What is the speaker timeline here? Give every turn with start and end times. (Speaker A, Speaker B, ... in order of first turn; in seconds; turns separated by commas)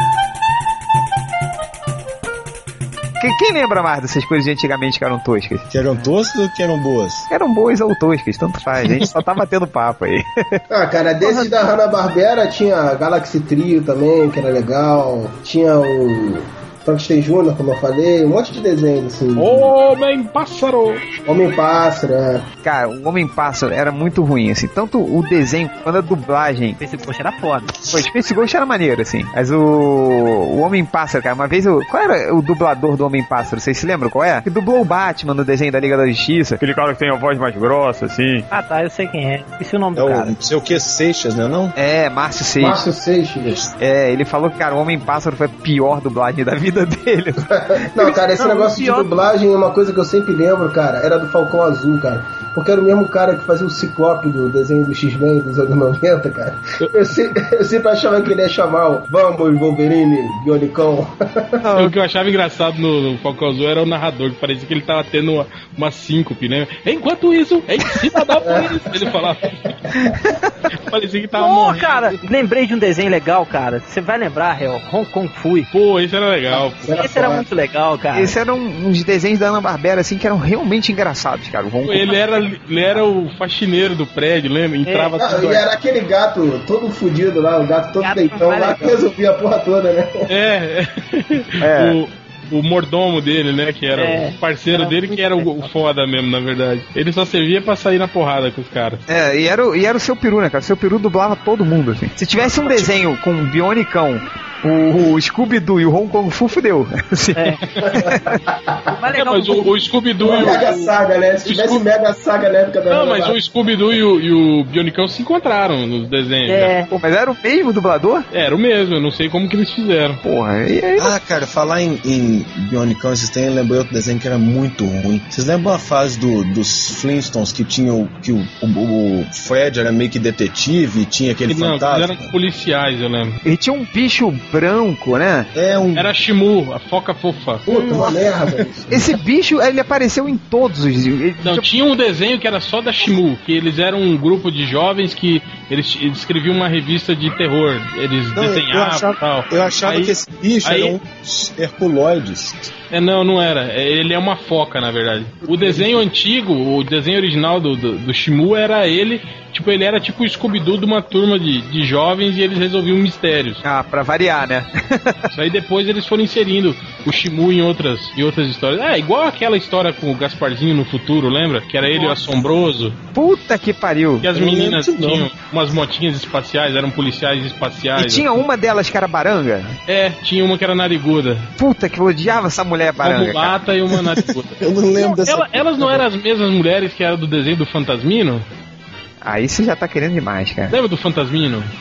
Speaker A: 3.2-5.7, Speaker B: 5.7-7.3, Speaker A: 7.3-10.6, Speaker C: 10.7-19.7, Speaker D: 19.4-21.0, Speaker C: 21.2-22.4, Speaker A: 22.6-26.8, Speaker E: 26.8-27.7, Speaker A: 27.9-38.5, Speaker E: 38.5-40.3, Speaker B: 39.9-41.7, Speaker A: 41.8-42.8, Speaker C: 42.6-43.6, Speaker A: 43.8-47.4, Speaker C: 47.5-61.6, Speaker E: 48.4-49.1, Speaker A: 61.6-61.9, Speaker D: 61.7-69.8, Speaker C: 68.4-69.2, Speaker A: 70.0-70.7, Speaker D: 70.8-72.2, Speaker E: 71.3-75.7, Speaker D: 75.7-76.9, Speaker C: 76.5-77.4, Speaker E: 77.0-78.3, Speaker A: 78.1-82.1, Speaker D: 81.8-85.6, Speaker E: 84.8-85.1, Speaker C: 85.2-90.2, Speaker E: 88.0-88.9, Speaker D: 90.3-99.0, Speaker A: 91.6-92.0, Speaker E: 93.9-95.7, Speaker A: 99.1-108.3, Speaker C: 107.8-108.9, Speaker E: 108.9-109.7, Speaker D: 109.1-110.9, Speaker C: 110.2-113.3, Speaker D: 111.4-111.8, Speaker D: 112.9-116.7, Speaker E: 116.5-116.9, Speaker A: 116.9-118.2, Speaker D: 118.3-120.2, Speaker A: 120.2-121.1, Speaker B: 121.0-132.3, Speaker D: 131.5-133.4, Speaker A: 133.4-135.5, Speaker B: 135.5-136.1, Speaker D: 135.9-137.6, Speaker C: 137.7-139.0, Speaker E: 137.7-138.1, Speaker B: 138.0-138.6, Speaker A: 138.9-141.7, Speaker D: 141.4-150.9, Speaker B: 148.3-152.7, Speaker D: 152.9-163.6, Speaker A: 163.6-165.3, Speaker D: 165.3-173.0, Speaker A: 173.1-174.3, Speaker D: 174.2-178.3, Speaker B: 174.3-175.3, Speaker A: 177.9-179.8, Speaker D: 179.9-181.5, Speaker A: 181.6-183.6, Speaker D: 183.0-188.4, Speaker B: 184.6-186.0, Speaker A: 189.2-190.8, Speaker D: 190.7-191.7